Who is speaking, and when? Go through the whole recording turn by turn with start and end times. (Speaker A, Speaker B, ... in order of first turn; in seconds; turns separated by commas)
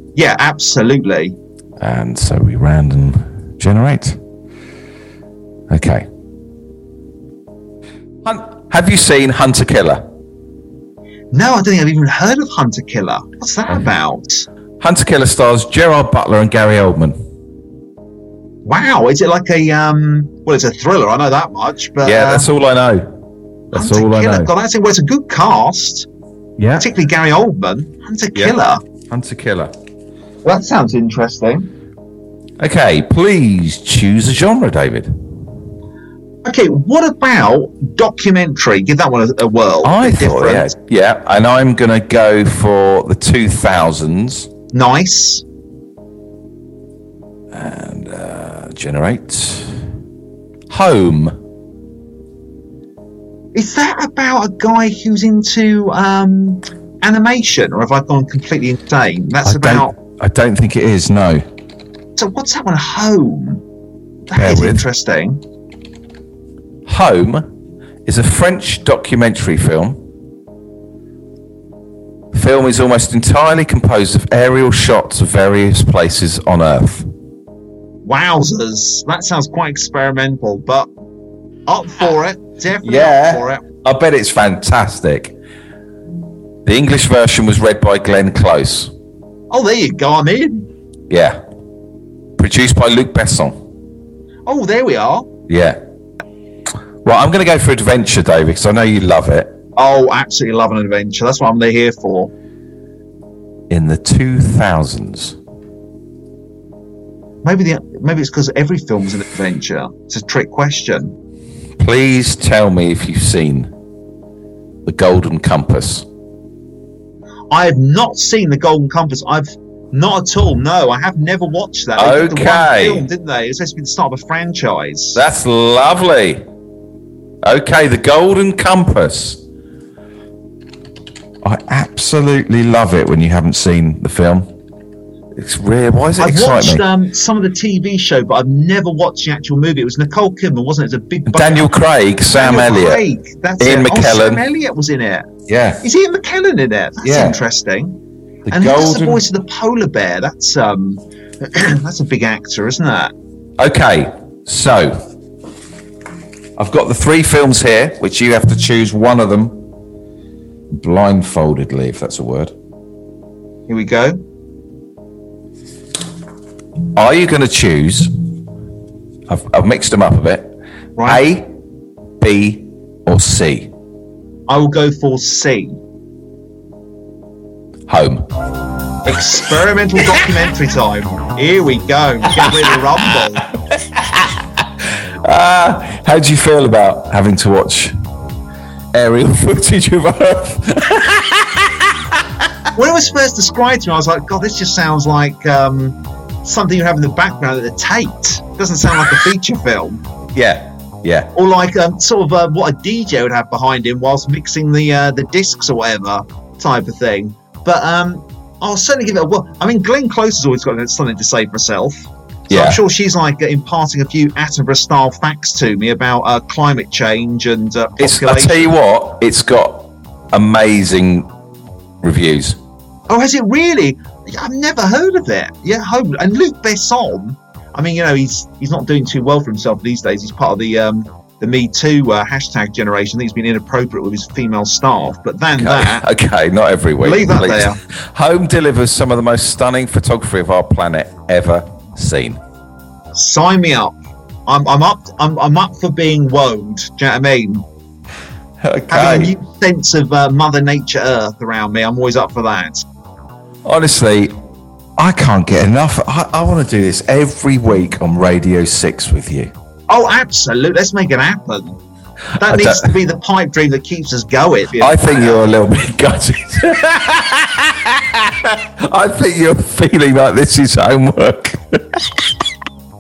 Speaker A: 0.1-1.4, Speaker B: 1.8-4.2, Speaker B: 5.7-6.1, Speaker B: 8.2-10.0, Speaker A: 11.3-14.5, Speaker B: 14.8-17.1, Speaker A: 18.6-22.4, Speaker B: 22.0-23.1, Speaker B: 23.7-24.5, Speaker A: 23.7-26.1, Speaker B: 26.6-26.9, Speaker A: 26.8-28.8, Speaker B: 28.3-28.6, Speaker B: 29.1-29.7, Speaker A: 30.4-31.7, Speaker B: 32.6-35.1, Speaker A: 36.4-40.7, Speaker B: 39.8-44.5, Speaker A: 44.7-45.4, Speaker B: 47.5-49.9, Speaker B: 50.7-51.4, Speaker A: 53.5-59.9, Speaker B: 59.4-61.4, Speaker A: 62.2-63.6, Speaker A: 64.3-65.4, Speaker B: 64.3-64.8, Speaker B: 66.8-67.5, Speaker B: 68.0-70.0, Speaker B: 72.3-77.0, Speaker A: 78.0-80.9, Speaker A: 81.7-83.6, Speaker B: 82.8-85.3, Speaker B: 86.6-88.9, Speaker A: 89.5-90.7, Speaker B: 91.1-91.4, Speaker B: 92.4-93.6, Speaker A: 94.5-95.3, Speaker B: 95.5-95.8, Speaker B: 97.0-99.6, Speaker A: 99.8-102.3, Speaker B: 103.7-105.4, Speaker A: 107.4-111.1, Speaker B: 111.8-113.7, Speaker B: 114.8-116.0, Speaker A: 117.5-125.2, Speaker B: 122.0-123.0, Speaker B: 125.1-126.4, Speaker B: 127.4-129.4, Speaker B: 131.4-134.5, Speaker B: 135.3-136.8, Speaker A: 136.2-141.7, Speaker B: 141.3-143.0, Speaker A: 142.3-153.1, Speaker B: 143.6-144.4, Speaker B: 145.5-145.8, Speaker B: 147.0-147.4, Speaker B: 148.4-149.2, Speaker B: 153.6-155.0, Speaker B: 156.6-159.7, Speaker B: 160.7-162.5, Speaker A: 163.7-164.2, Speaker B: 166.9-168.1, Speaker B: 169.3-171.5, Speaker A: 171.0-171.2, Speaker B: 172.2-173.7, Speaker A: 174.5-175.8, Speaker B: 177.9-178.2, Speaker A: 179.0-183.5, Speaker B: 182.4-184.4, Speaker B: 185.2-187.9, Speaker B: 188.9-192.2, Speaker A: 192.7-200.0, Speaker B: 200.3-201.3, Speaker A: 201.3-218.7, Speaker B: 212.5-212.8, Speaker B: 218.0-221.3, Speaker B: 222.0-222.6, Speaker A: 223.1-236.0, Speaker B: 235.5-242.4, Speaker A: 237.0-237.8, Speaker A: 243.1-243.9, Speaker A: 244.5-247.6, Speaker B: 248.6-249.3, Speaker A: 248.9-252.8, Speaker B: 253.6-254.3, Speaker B: 255.0-259.5, Speaker A: 259.9-261.8, Speaker A: 262.4-265.5, Speaker B: 262.4-262.9, Speaker B: 264.8-272.3